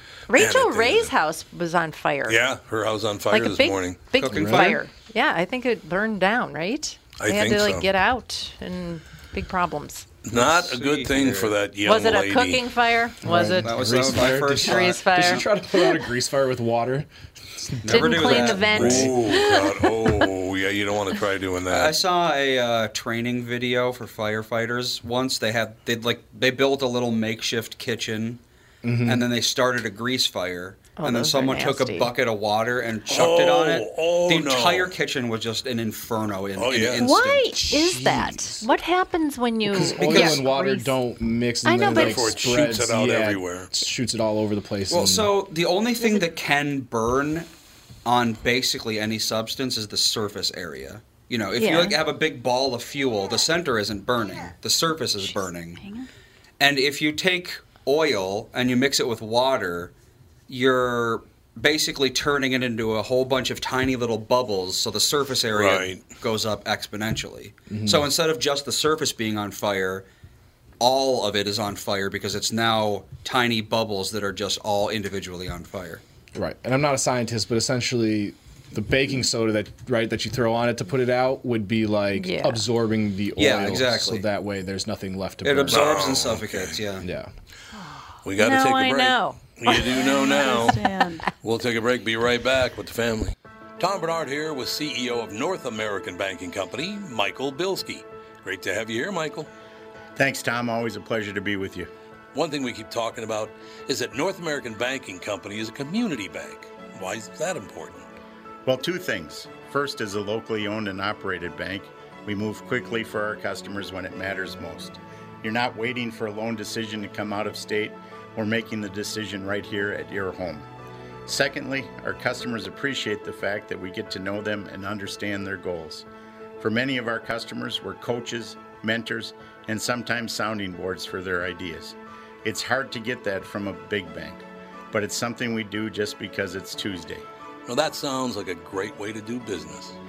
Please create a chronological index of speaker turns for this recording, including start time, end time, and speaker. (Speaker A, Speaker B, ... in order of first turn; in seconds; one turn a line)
Speaker A: 0.3-2.4
Speaker B: 0.3-1.1
Speaker B: 2.3-4.0
Speaker A: 3.3-10.1
Speaker C: 4.1-4.8
Speaker D: 4.2-4.8
Speaker B: 7.2-7.8
Speaker B: 10.2-12.6
Speaker C: 10.3-11.6
Speaker A: 11.8-13.9
Speaker D: 13.2-19.1
Speaker C: 13.6-15.4
Speaker A: 14.6-15.4
Speaker C: 17.8-19.0
Speaker A: 17.9-19.9
Speaker B: 18.6-22.0
Speaker C: 21.7-28.4
Speaker D: 28.8-29.2
Speaker C: 29.0-37.8
Speaker A: 31.0-32.1
Speaker B: 33.1-34.9
Speaker B: 36.5-37.0
Speaker A: 37.0-40.9
Speaker D: 37.6-38.5
Speaker D: 39.6-45.3
Speaker C: 40.0-40.3
Speaker A: 41.6-42.3
Speaker B: 41.9-43.8
Speaker C: 44.9-47.5
Speaker C: 48.0-55.8
Speaker A: 51.6-51.9
Speaker E: 55.2-56.1
Speaker C: 56.6-59.9
Speaker C: 60.5-70.0
Speaker B: 65.5-66.0
Speaker D: 67.7-68.1
Speaker C: 70.8-76.0
Speaker D: 76.3-85.9
Speaker A: 82.2-82.6
Speaker C: 83.4-84.2
Speaker C: 85.4-87.0
Speaker B: 85.7-86.8
Speaker D: 87.0-87.3
Speaker A: 87.8-90.7
Speaker B: 88.2-90.8
Speaker E: 90.1-91.2
Speaker B: 91.4-99.5
Speaker F: 100.2-101.9
Speaker B: 102.3-108.0
Speaker F: 108.7-120.7
Speaker F: 121.3-126.0
Speaker F: 126.6-137.2
Speaker B: 137.7-139.9